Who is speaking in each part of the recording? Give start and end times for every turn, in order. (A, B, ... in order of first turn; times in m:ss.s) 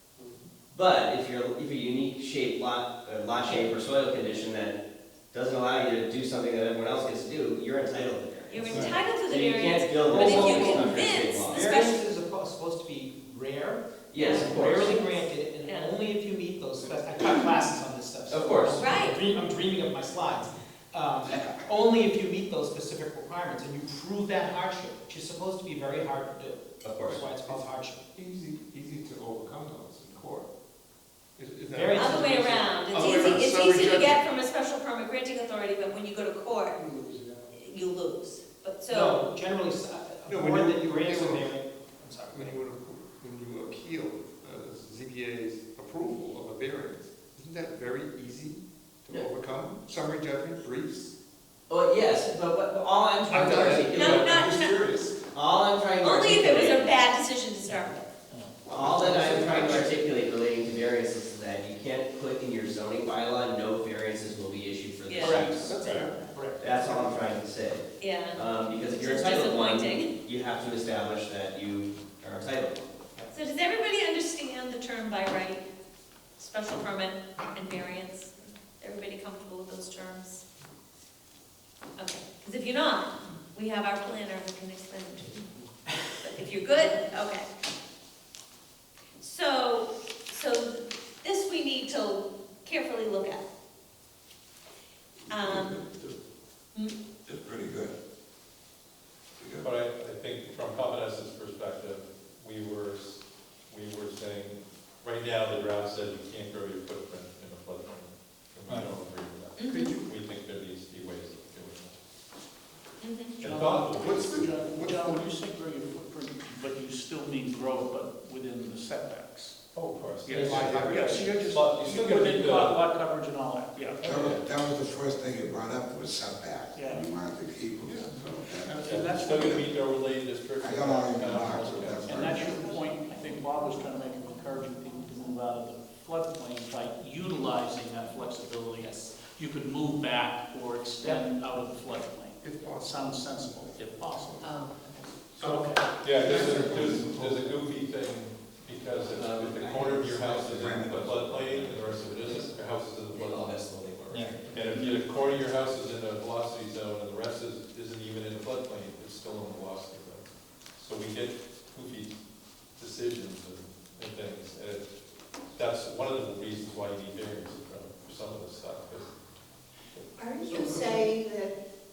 0:00.7-0:04.8 A
0:05.3-0:11.7 A
0:08.5-0:12.0 B
0:10.0-0:28.0 C
0:14.1-0:15.0 A
0:14.2-0:16.0 B
0:18.3-0:18.8 A
0:18.8-0:19.2 B
0:26.8-0:27.2 A
0:27.4-0:30.5 D
0:31.4-0:34.2 D
0:31.7-0:32.8 C
0:31.9-0:36.8 B
0:37.5-0:39.2 B
0:38.9-0:42.6 C
0:40.3-0:41.6 D
0:42.3-0:51.1 D
0:51.7-0:54.5 A
0:53.3-0:55.1 D
0:53.5-0:54.9 B
0:55.3-0:56.9 A
0:56.0-0:58.1 B
0:58.3-0:58.6 E
0:58.6-1:00.0 D
0:58.7-1:05.7 A
1:05.1-1:05.4 B
1:05.2-1:06.6 C
1:05.5-1:07.3 D
1:06.6-1:12.8 A
1:08.0-1:10.1 B
1:13.3-1:15.6 B
1:16.4-1:20.4 B
1:22.0-1:25.5 B
1:26.2-1:27.5 B
1:29.2-1:33.4 B
1:35.3-1:35.9 B
1:35.3-1:36.2 F
1:37.2-1:37.9 F
1:39.4-1:39.7 F
1:39.6-1:51.9 G
1:49.5-1:50.0 B
1:49.7-1:50.0 D
1:53.0-1:53.5 B
1:53.4-1:54.6 G
1:53.4-1:59.6 E
1:53.9-1:55.3 D
1:59.7-2:02.8 G
2:00.2-2:01.6 D
2:00.2-2:04.0 E
2:04.0-2:04.5 G
2:04.0-2:09.6 F
2:06.7-2:07.1 E
2:07.8-2:08.1 D
2:08.6-2:09.7 E
2:08.8-2:12.2 G
2:10.6-2:12.8 F
2:12.0-2:24.5 E
2:18.8-2:19.2 C
2:22.4-2:24.5 D
2:24.4-2:24.9 B
2:25.4-2:42.2 G
2:25.4-2:25.8 E
2:26.1-2:27.6 F
2:29.2-2:30.7 A
2:29.9-2:32.0 F
2:31.3-2:32.5 A
2:33.1-2:34.4 A
2:34.1-2:34.4 C
2:42.7-2:44.9 G
2:45.4-2:49.1 G
2:50.2-2:51.5 B